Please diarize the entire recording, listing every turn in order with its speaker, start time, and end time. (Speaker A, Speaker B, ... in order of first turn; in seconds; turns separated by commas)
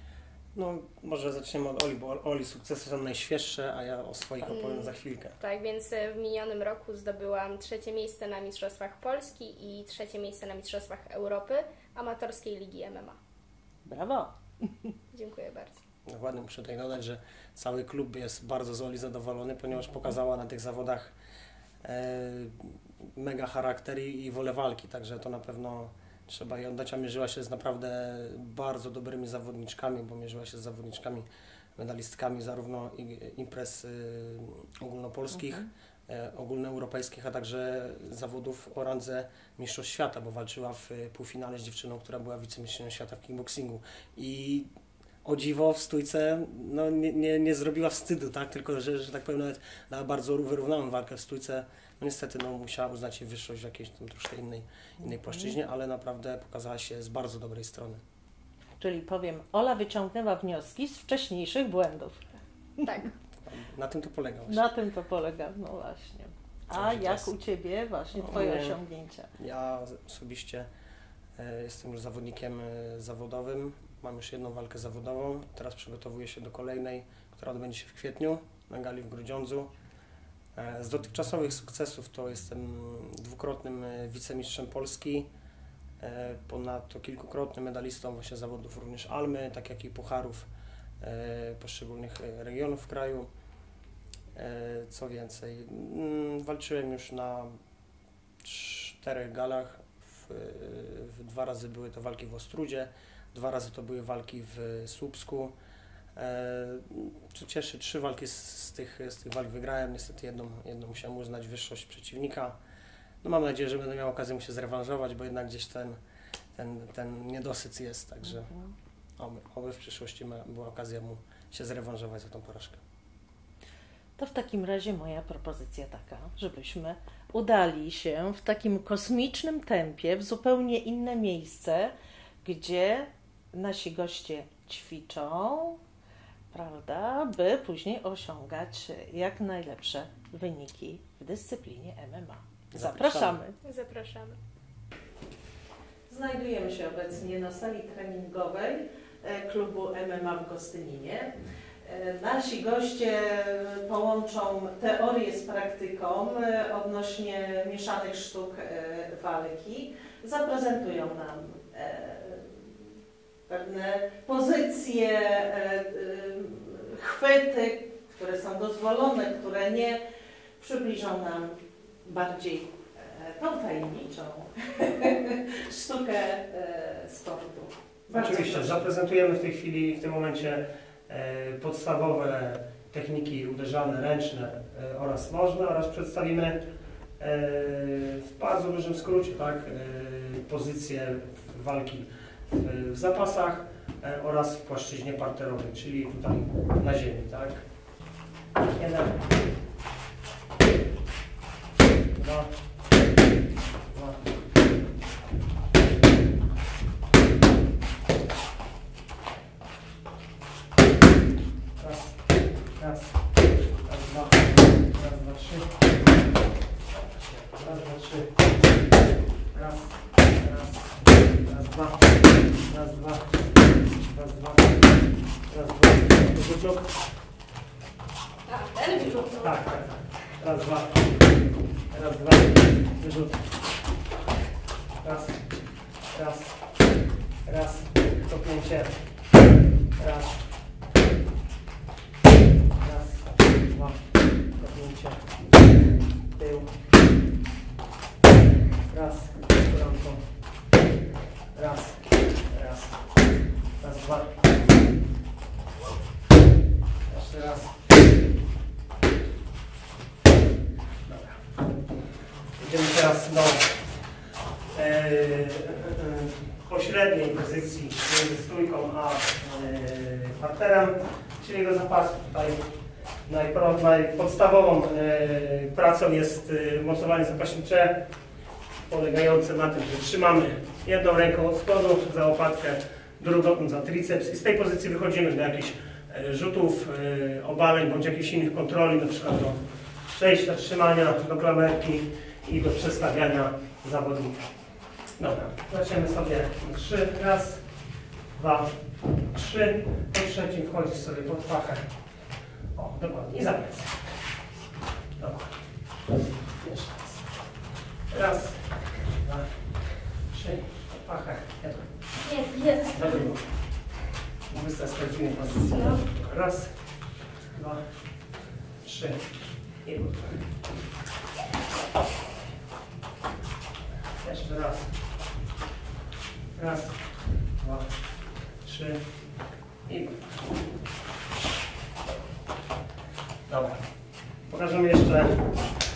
Speaker A: 0.5-5.3, Speaker B: 4.4-13.2, Speaker C: 13.8-14.9, Speaker B: 15.1-15.8, Speaker A: 16.1-21.1, Speaker A: 21.8-44.7, Speaker A: 45.2-58.0, Speaker C: 55.2-55.5, Speaker C: 58.8-62.2, Speaker B: 62.8-63.1, Speaker A: 63.4-64.6, Speaker C: 64.5-69.3, Speaker A: 66.7-67.3, Speaker A: 68.2-68.8, Speaker A: 69.4-70.7, Speaker A: 71.4-79.7, Speaker A: 80.5-85.3, Speaker A: 86.0-90.5, Speaker A: 91.0-93.3, Speaker A: 94.3-97.6, Speaker A: 98.4-105.5, Speaker A: 106.2-112.6, Speaker A: 113.2-116.0, Speaker A: 116.5-118.5, Speaker A: 119.2-122.8, Speaker C: 124.2-135.8, Speaker C: 136.5-143.6, Speaker A: 142.7-143.4, Speaker B: 143.6-144.4, Speaker C: 146.1-162.8, Speaker C: 163.5-170.0, Speaker C: 170.6-178.8, Speaker A: 178.1-186.6, Speaker A: 187.2-197.6, Speaker A: 198.7-199.2, Speaker A: 202.1-202.5, Speaker A: 203.9-204.3, Speaker A: 211.8-212.2, Speaker A: 212.8-213.2, Speaker A: 213.8-215.9, Speaker A: 216.9-218.4, Speaker A: 219.5-224.9, Speaker A: 225.5-226.9, Speaker B: 228.5-229.6, Speaker A: 229.2-231.2, Speaker A: 231.9-233.5, Speaker A: 235.0-235.4, Speaker A: 236.1-236.6, Speaker A: 237.4-239.0, Speaker A: 240.0-240.4, Speaker A: 242.8-244.0, Speaker A: 244.5-245.7, Speaker A: 246.3-246.7, Speaker A: 248.9-250.2, Speaker A: 251.5-253.0, Speaker A: 253.8-254.3, Speaker A: 257.1-257.8, Speaker A: 261.1-261.6, Speaker A: 262.6-263.8, Speaker A: 264.7-272.6, Speaker A: 273.3-278.0, Speaker A: 278.9-289.6, Speaker A: 290.1-294.4, Speaker A: 295.2-297.6, Speaker A: 298.3-301.9, Speaker A: 302.7-304.0, Speaker A: 305.2-307.2, Speaker A: 308.1-309.5, Speaker A: 310.3-311.9, Speaker B: 312.2-313.2, Speaker A: 312.9-313.4, Speaker A: 314.5-316.7, Speaker B: 315.7-316.0, Speaker A: 317.5-317.8, Speaker A: 318.8-319.3, Speaker A: 319.8-320.4, Speaker A: 324.2-324.9, Speaker A: 326.5-327.1, Speaker A: 327.6-327.9, Speaker A: 328.6-329.0, Speaker A: 329.9-330.3, Speaker A: 333.5-333.8, Speaker A: 334.5-335.5